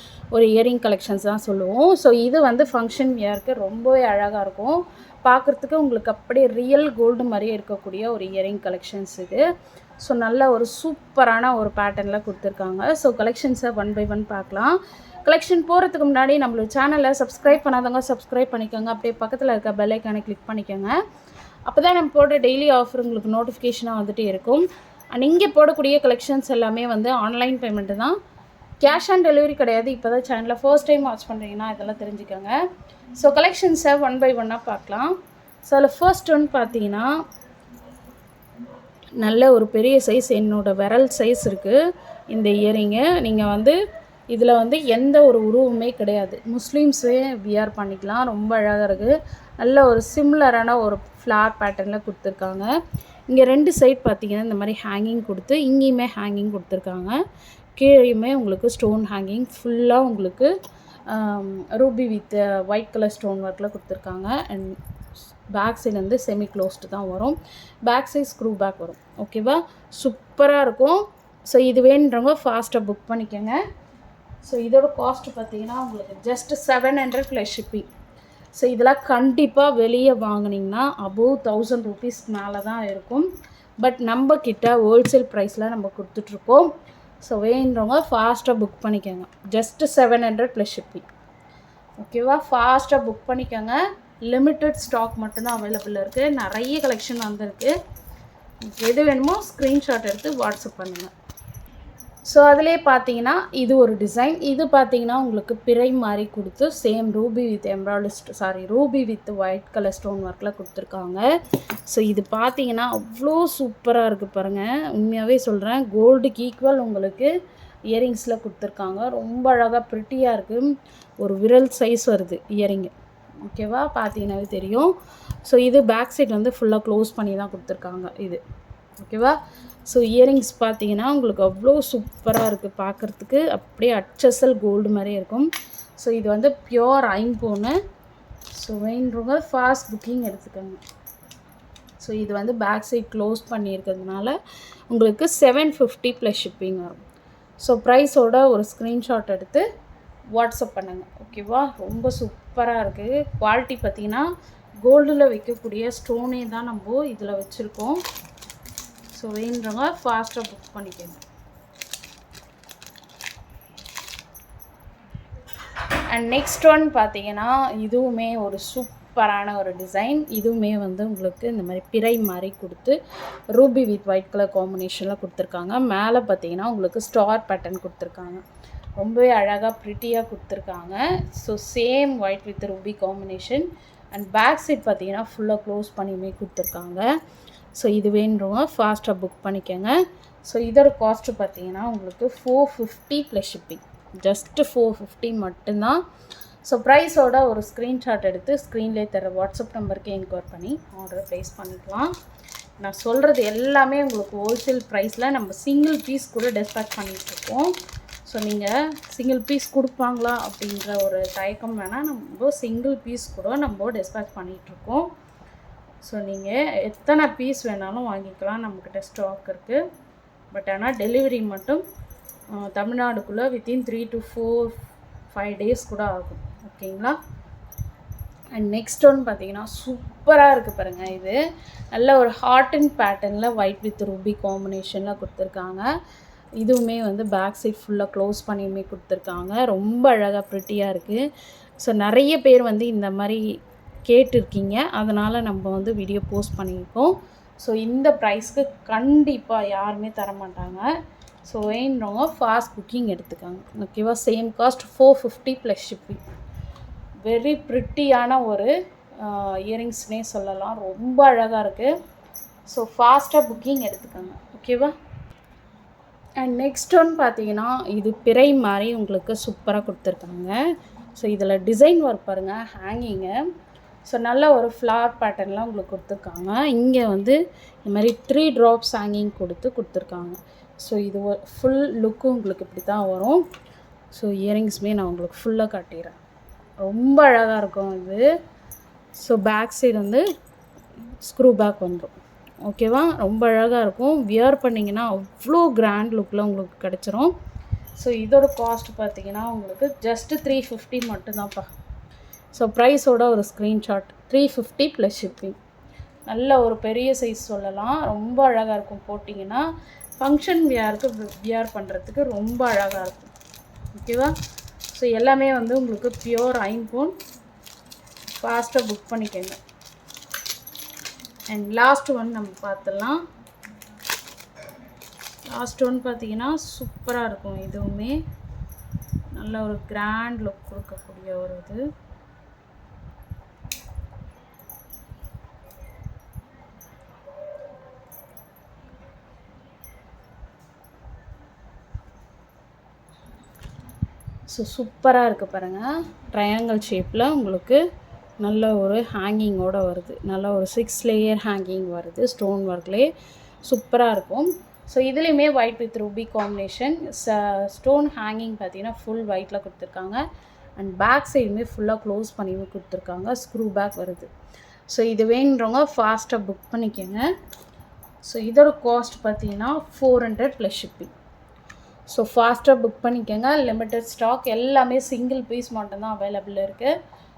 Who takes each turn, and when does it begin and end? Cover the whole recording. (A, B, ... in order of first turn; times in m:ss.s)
0:00.3-0:09.4 A
0:10.0-0:20.9 A
0:21.7-0:28.2 A
0:28.8-0:32.6 A
0:33.2-0:37.1 A
0:39.2-0:41.8 A
0:42.3-0:43.8 A
0:44.3-0:52.7 A
0:53.3-0:57.2 A
0:57.8-1:00.5 A
1:01.1-1:04.8 A
1:05.5-1:13.6 A
1:14.4-1:17.9 A
1:18.6-1:23.3 A
1:23.8-1:26.7 A
1:27.2-1:31.0 A
1:32.0-1:37.7 A
1:38.7-1:41.1 A
1:42.3-1:51.2 A
1:51.9-1:57.3 A
1:57.9-2:02.9 A
2:03.4-2:08.4 A
2:09.0-2:17.8 A
2:18.5-2:20.8 A
2:22.0-2:24.4 A
2:24.9-2:27.0 A
2:27.6-2:29.6 A
2:30.3-2:34.3 A
2:34.8-2:38.0 A
2:39.1-2:41.2 A
2:46.1-2:53.0 A
2:53.5-2:58.4 A
2:59.0-3:07.1 A
3:07.7-3:16.0 A
3:16.6-3:22.1 A
3:22.8-3:27.7 A
3:28.3-3:35.1 A
3:36.0-3:39.8 A
3:40.5-3:41.8 A
3:42.5-3:44.8 A
3:45.3-3:47.2 A
3:48.5-3:51.4 A
3:51.9-3:55.9 A
3:56.6-4:01.2 A
4:01.8-4:03.4 A
4:04.1-4:10.9 A
4:11.4-4:16.2 A
4:17.2-4:21.9 A
4:22.7-4:24.9 A
4:26.4-4:30.5 A
4:31.2-4:33.3 A
4:34.1-4:43.4 A
4:44.1-4:46.2 A
4:46.8-4:48.3 A
4:49.2-4:50.2 A
4:51.2-4:57.3 A
4:58.0-5:01.7 A
5:02.5-5:05.6 A
5:06.3-5:09.6 A
5:10.2-5:13.3 A
5:13.9-5:14.3 A
5:14.9-5:17.2 A
5:18.4-5:19.6 A
5:21.5-5:23.2 A
5:25.5-5:28.2 A
5:29.3-5:31.8 A
5:44.5-5:47.8 A
5:48.4-5:53.1 A
5:53.6-6:00.2 A
6:00.8-6:04.3 A
6:04.9-6:07.3 A
6:08.2-6:11.1 A
6:12.1-6:16.9 A